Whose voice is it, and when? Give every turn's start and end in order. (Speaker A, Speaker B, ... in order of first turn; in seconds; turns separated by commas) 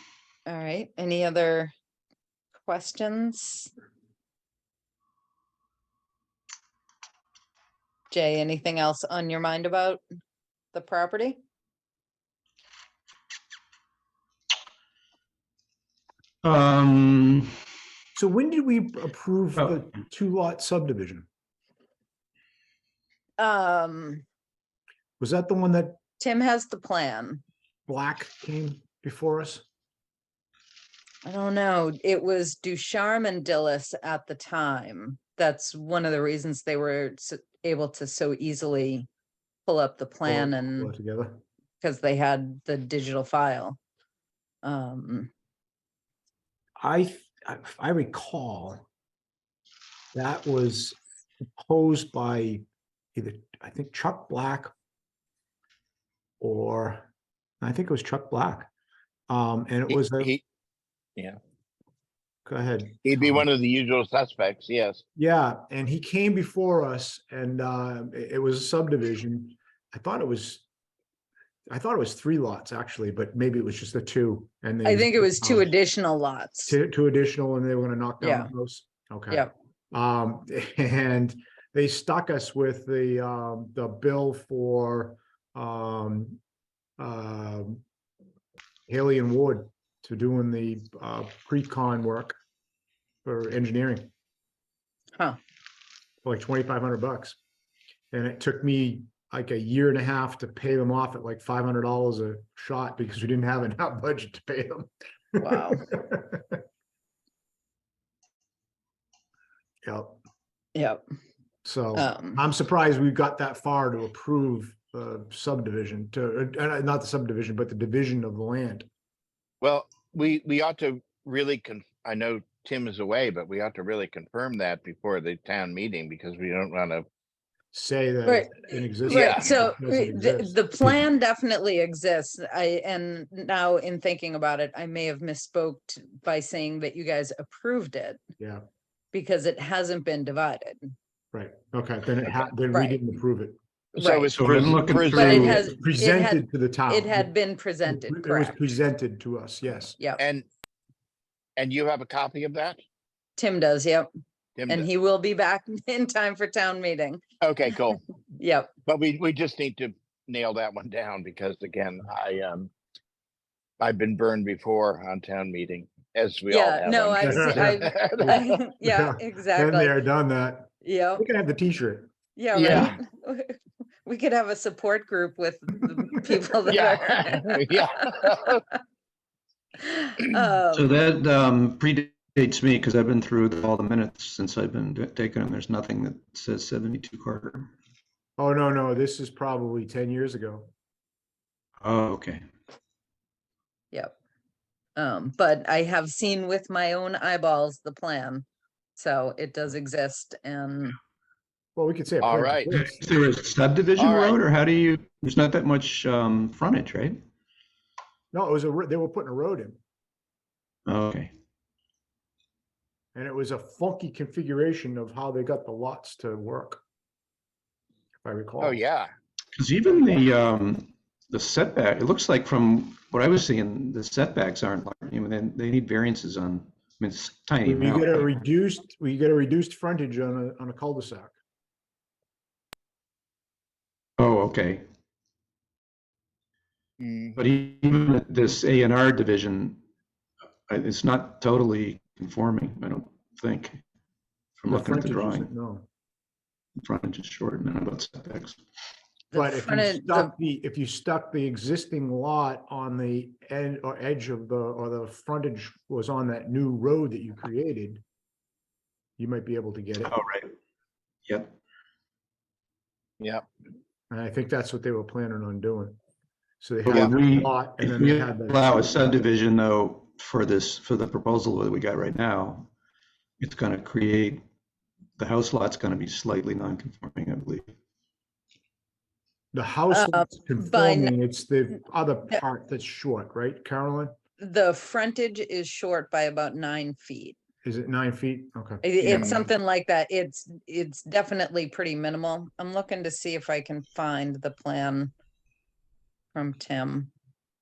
Speaker A: 0.5-1.7, Speaker A: 2.6-3.7, Speaker A: 8.1-10.0, Speaker A: 10.7-11.4, Speaker B: 16.4-17.5, Speaker C: 18.1-21.3, Speaker A: 23.4-24.2, Speaker C: 25.2-26.0, Speaker A: 26.2-27.4, Speaker C: 27.9-29.6, Speaker A: 31.2-39.1, Speaker A: 39.6-40.9, Speaker C: 40.2-41.4, Speaker A: 41.8-43.8, Speaker A: 44.6-45.3, Speaker C: 46.8-48.8, Speaker C: 50.1-51.0, Speaker C: 51.5-52.6, Speaker C: 53.1-54.7, Speaker C: 56.4-57.1, Speaker C: 57.6-58.7, Speaker C: 59.3-60.3, Speaker D: 59.9-60.4, Speaker C: 62.5-63.5, Speaker D: 63.0-65.0, Speaker C: 65.2-70.6, Speaker C: 71.7-75.7, Speaker A: 74.8-76.8, Speaker C: 76.7-86.4, Speaker A: 78.2-78.5, Speaker C: 87.0-87.8, Speaker C: 88.9-92.4, Speaker C: 93.2-94.1, Speaker C: 96.2-97.4, Speaker C: 98.1-106.6, Speaker A: 105.4-105.9, Speaker C: 109.8-110.2, Speaker A: 110.7-111.0, Speaker C: 111.6-118.9, Speaker A: 112.0-112.4, Speaker D: 119.6-127.0, Speaker C: 127.7-131.1, Speaker A: 128.2-138.2, Speaker D: 129.1-129.5, Speaker A: 139.1-140.9, Speaker C: 141.3-143.6, Speaker A: 142.7-143.0, Speaker D: 143.9-145.7, Speaker A: 144.0-144.3, Speaker B: 144.3-145.6, Speaker A: 145.1-148.6, Speaker C: 145.5-147.3, Speaker C: 147.8-150.0, Speaker D: 150.2-150.5, Speaker D: 151.6-152.8, Speaker A: 153.4-154.1, Speaker D: 154.6-154.9, Speaker A: 154.7-157.2, Speaker D: 157.4-158.0, Speaker A: 158.4-158.7, Speaker D: 158.8-162.7, Speaker D: 163.8-168.6, Speaker A: 166.5-170.0, Speaker C: 167.2-172.1, Speaker A: 170.8-171.2, Speaker A: 172.3-178.2, Speaker D: 172.5-172.9, Speaker D: 176.7-178.6, Speaker A: 179.8-180.9, Speaker B: 180.7-187.7, Speaker C: 188.4-190.7, Speaker B: 191.8-192.4, Speaker A: 194.9-200.9, Speaker C: 201.8-203.0, Speaker D: 202.2-202.7, Speaker B: 202.7-207.2, Speaker D: 204.0-204.4, Speaker C: 208.3-209.8, Speaker B: 210.8-211.3, Speaker C: 213.1-216.8, Speaker C: 218.2-218.8, Speaker D: 218.6-219.1, Speaker B: 219.5-228.3, Speaker C: 227.6-231.3, Speaker B: 234.2-234.8, Speaker D: 237.0-237.4, Speaker B: 237.3-239.8, Speaker B: 240.7-243.8, Speaker B: 244.6-245.5, Speaker C: 244.7-245.9, Speaker B: 246.8-248.6, Speaker A: 249.3-250.3, Speaker C: 249.3-258.0, Speaker C: 259.2-260.1, Speaker B: 260.0-260.5, Speaker B: 261.3-261.6, Speaker D: 263.2-263.4, Speaker C: 264.1-266.0, Speaker C: 266.6-269.0, Speaker B: 266.8-272.7, Speaker B: 273.4-274.4, Speaker B: 275.2-277.7, Speaker C: 279.5-284.1, Speaker A: 279.9-281.1, Speaker A: 284.4-287.4, Speaker C: 287.6-289.4, Speaker A: 288.8-295.1, Speaker D: 289.0-289.5, Speaker A: 296.3-297.1